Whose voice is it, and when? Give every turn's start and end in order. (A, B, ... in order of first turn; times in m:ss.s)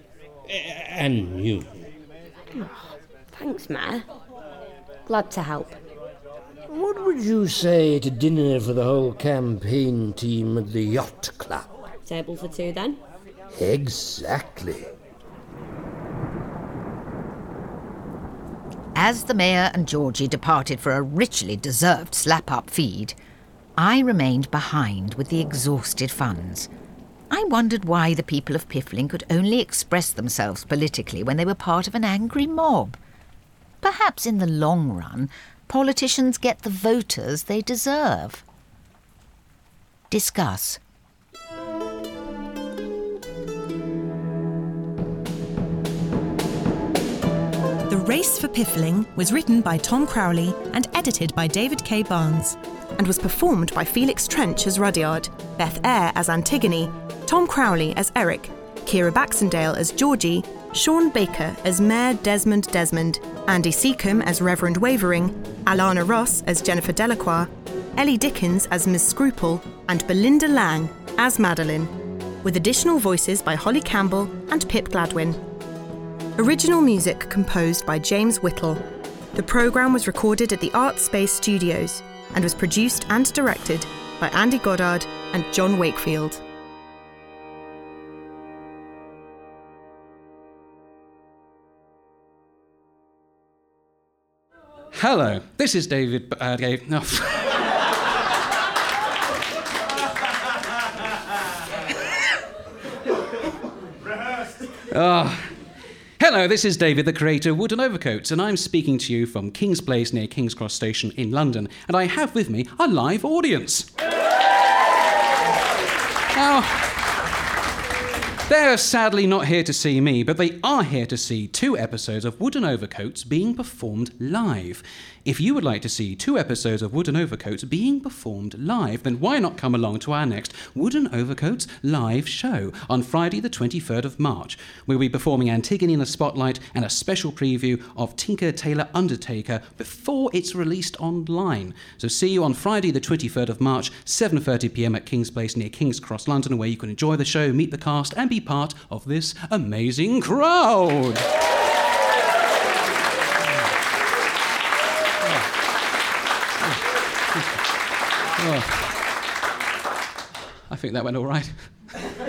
0:00.4-0:01.9 A
0:02.5-0:04.0 B
0:05.0-0:05.8 B
0:06.7-0:11.7 A
0:12.0-0:13.0 B
0:13.5-0:14.9 A
0:18.9-0:23.2 C
0:23.8-0:26.7 C
0:27.3-0:33.0 C
0:33.8-0:38.4 C
0:40.1-0:40.8 C
0:47.9-1:11.9 D
1:12.4-1:15.4 D
1:16.4-1:18.8 D
1:19.3-1:26.4 D
1:34.9-1:37.6 E
1:44.9-1:45.5 E
1:46.2-1:53.9 E
1:56.3-1:57.0 E
1:58.5-2:31.2 E
2:35.2-2:35.5 E
2:37.3-2:37.6 E
2:38.4-2:39.0 E
2:40.7-2:41.5 E